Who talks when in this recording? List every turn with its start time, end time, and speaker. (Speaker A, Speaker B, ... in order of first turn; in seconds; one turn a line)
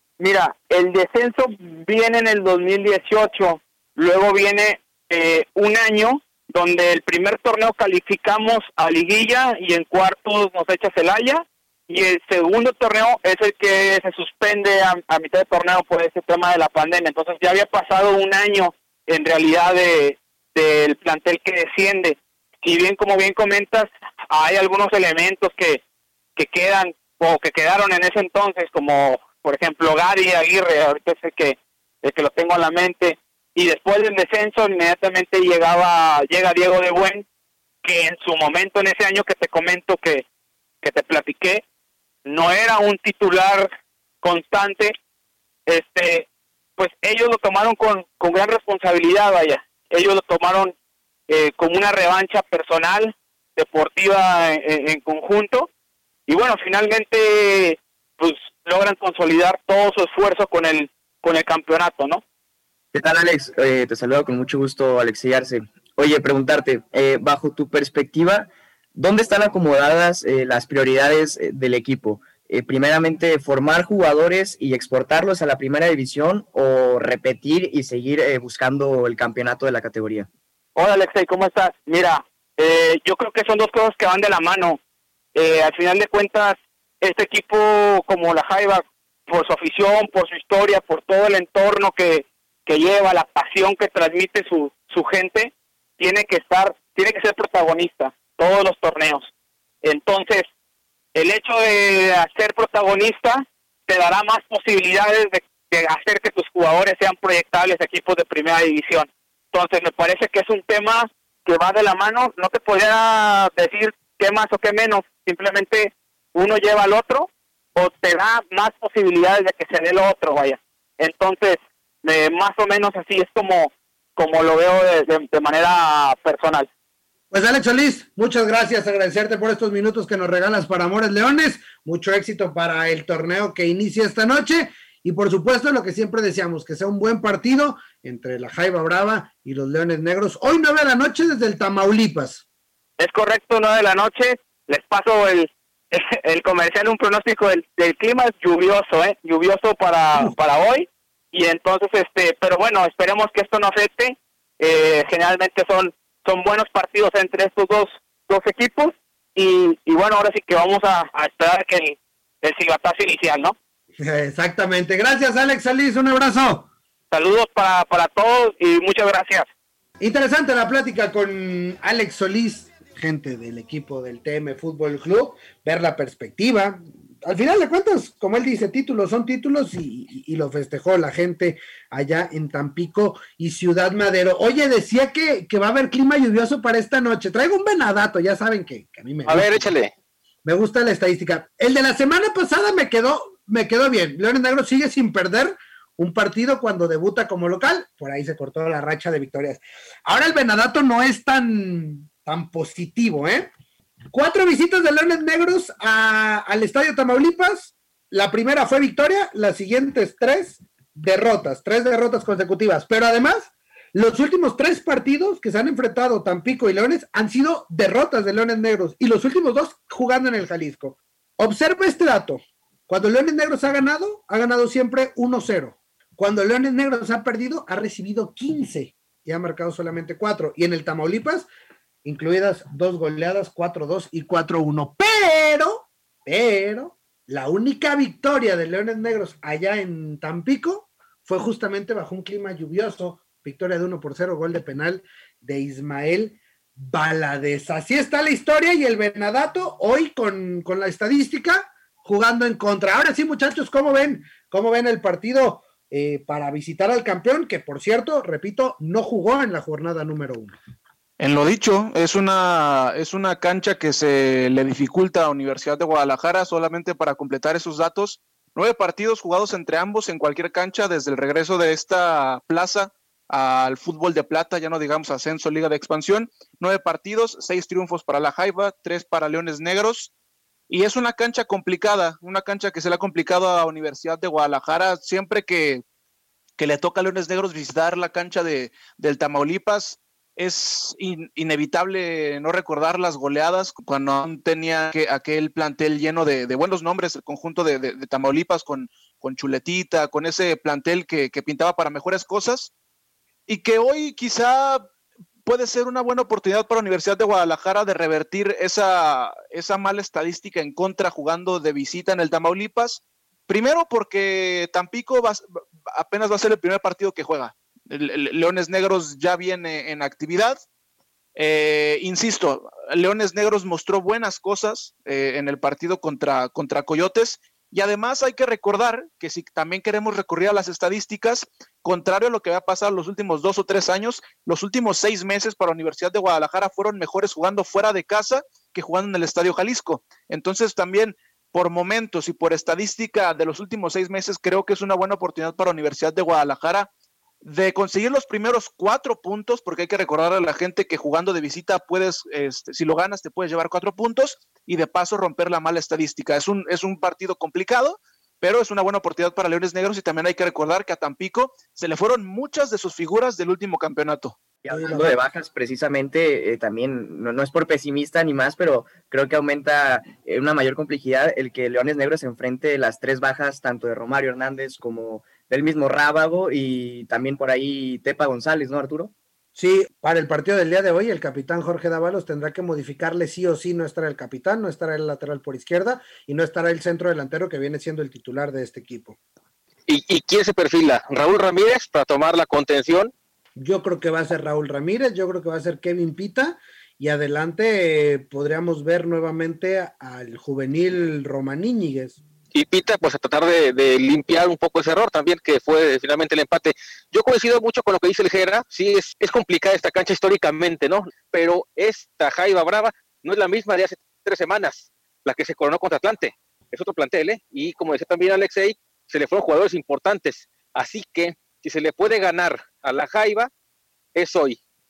Speaker A: 0.2-25.8
Speaker A: 26.4-37.2
Speaker A: 37.8-40.2
Speaker A: 40.8-41.6
Speaker A: 42.2-43.7
Speaker A: 44.2-44.9
Speaker A: 45.7-46.3
Speaker A: 46.8-50.7
Speaker A: 51.3-55.7
Speaker A: 56.3-62.2
Speaker B: 62.9-80.3
Speaker A: 80.8-84.8
Speaker A: 85.3-99.3
Speaker A: 99.8-100.5
Speaker A: 101.1-126.7
Speaker C: 127.3-142.4
Speaker A: 143.0-163.6
Speaker C: 164.0-166.7
Speaker A: 167.1-169.5
Speaker C: 170.0-189.7
Speaker D: 189.2-189.9
Speaker C: 190.4-203.5
Speaker C: 204.1-231.5
Speaker C: 232.0-260.6
Speaker E: 261.2-280.1
Speaker E: 280.7-285.8
Speaker E: 286.6-302.7
Speaker E: 303.5-304.9
Speaker E: 305.4-320.6
Speaker E: 321.4-346.9
Speaker E: 347.4-364.4
Speaker B: 364.6-379.1
Speaker C: 364.7-365.1
Speaker C: 379.6-389.2
Speaker D: 389.9-393.1
Speaker C: 393.6-402.2
Speaker D: 402.5-423.5
Speaker D: 424.1-424.6